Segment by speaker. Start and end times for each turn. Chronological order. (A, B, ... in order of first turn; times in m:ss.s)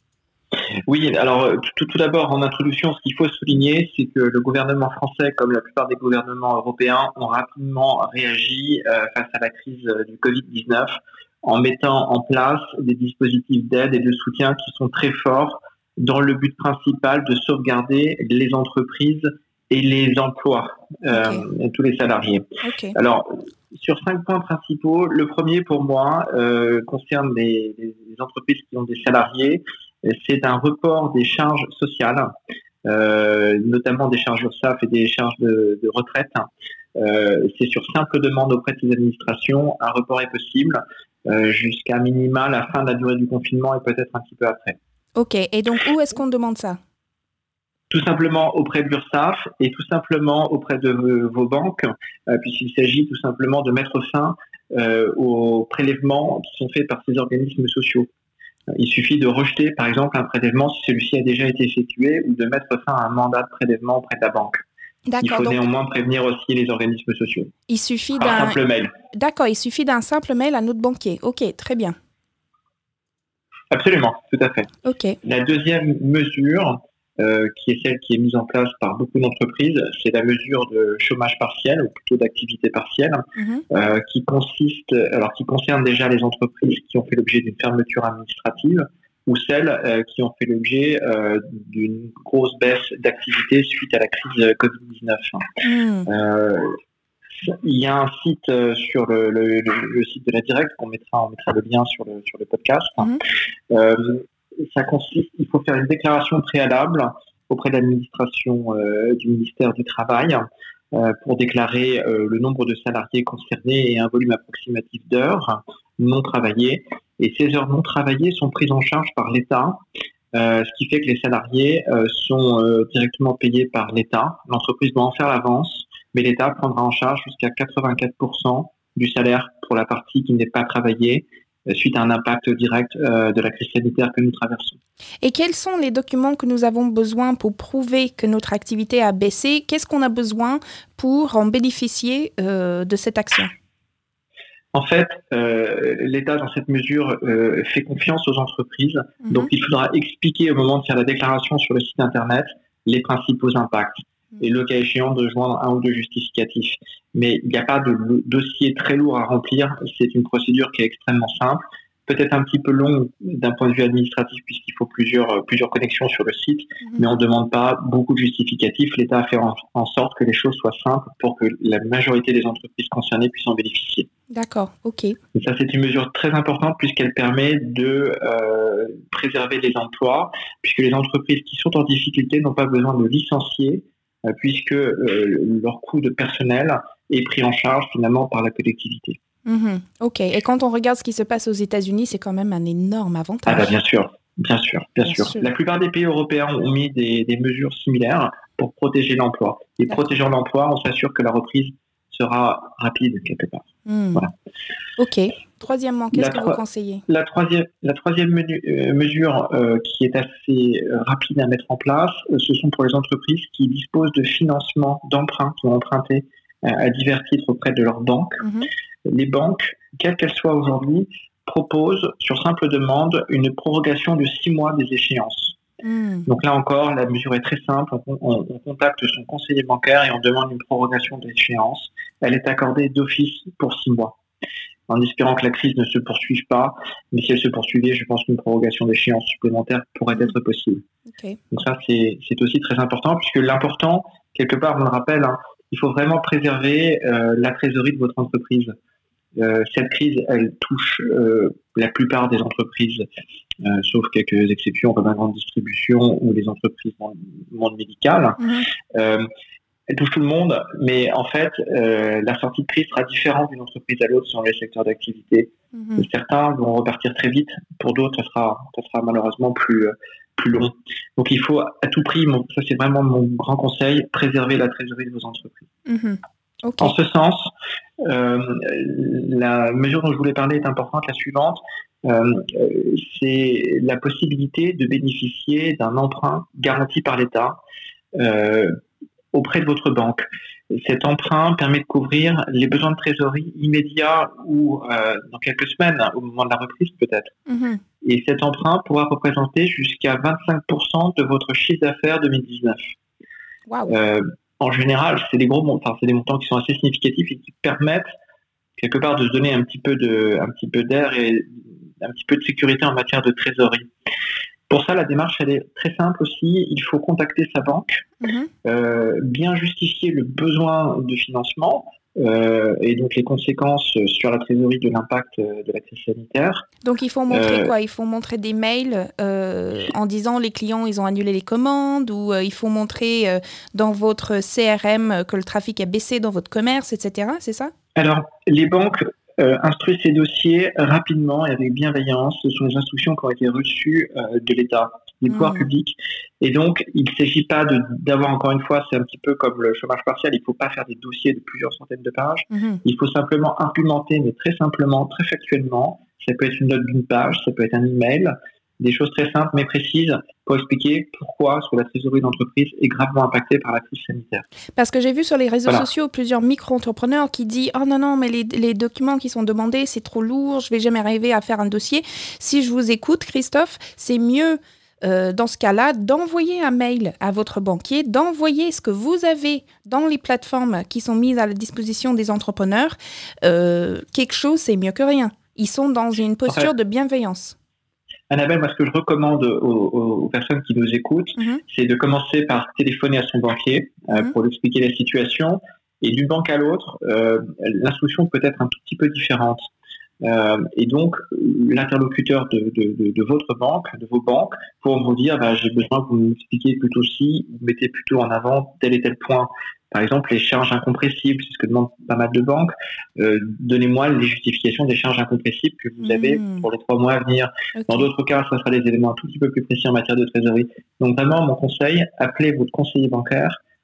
0:00.9-0:32.3 A
0:21.1-0:21.4 B
0:22.6-0:22.9 B
0:32.8-0:44.8 A
0:45.2-0:46.8 B
0:47.9-0:58.1 A
0:58.7-1:04.6 A
1:05.1-1:05.6 B
1:05.2-1:07.5 A
1:07.7-1:08.6 B
1:08.2-1:08.9 A
1:09.1-1:11.9 B
1:13.7-1:14.7 A
1:14.8-1:15.2 B
1:15.2-1:35.5 A
1:23.4-1:23.6 B
1:35.6-1:36.1 B
1:36.0-1:36.8 A
1:37.4-1:43.2 A
1:43.7-1:59.8 A
2:00.3-2:14.8 A
2:15.2-2:23.5 B
2:24.7-2:54.1 A
2:54.3-2:55.2 B
2:55.3-3:09.2 A
3:09.4-3:13.8 B
3:13.4-3:24.3 A
3:15.0-3:15.4 B
3:23.8-3:24.2 B
3:25.0-3:27.0 B
3:26.1-3:38.4 A
3:38.4-3:38.7 B
3:39.0-3:45.6 A
3:45.8-3:46.3 B
3:46.3-3:54.2 A
3:54.9-4:00.8 A
4:01.5-4:08.7 A
4:09.3-4:13.0 A
4:13.6-4:19.2 A
4:18.4-4:18.6 B
4:19.9-4:35.7 A
4:25.8-4:26.0 B
4:35.8-4:36.9 B
4:36.8-4:47.6 A
4:48.1-4:48.8 A
4:49.3-4:57.3 A
4:57.5-4:57.8 B
4:58.0-5:03.0 A
5:03.9-5:08.1 A
5:08.8-5:13.9 A
5:14.7-5:18.1 A
5:18.2-5:18.5 B
5:18.6-5:26.7 A
5:26.8-5:37.7 B
5:27.3-5:27.7 A
5:37.9-6:04.4 A
5:45.3-5:45.7 B
5:52.5-5:52.8 B
6:04.8-6:27.5 B
6:28.3-6:39.7 A
6:31.4-6:31.6 B
6:40.2-7:03.6 A
6:56.0-6:56.6 B
6:57.8-6:58.1 B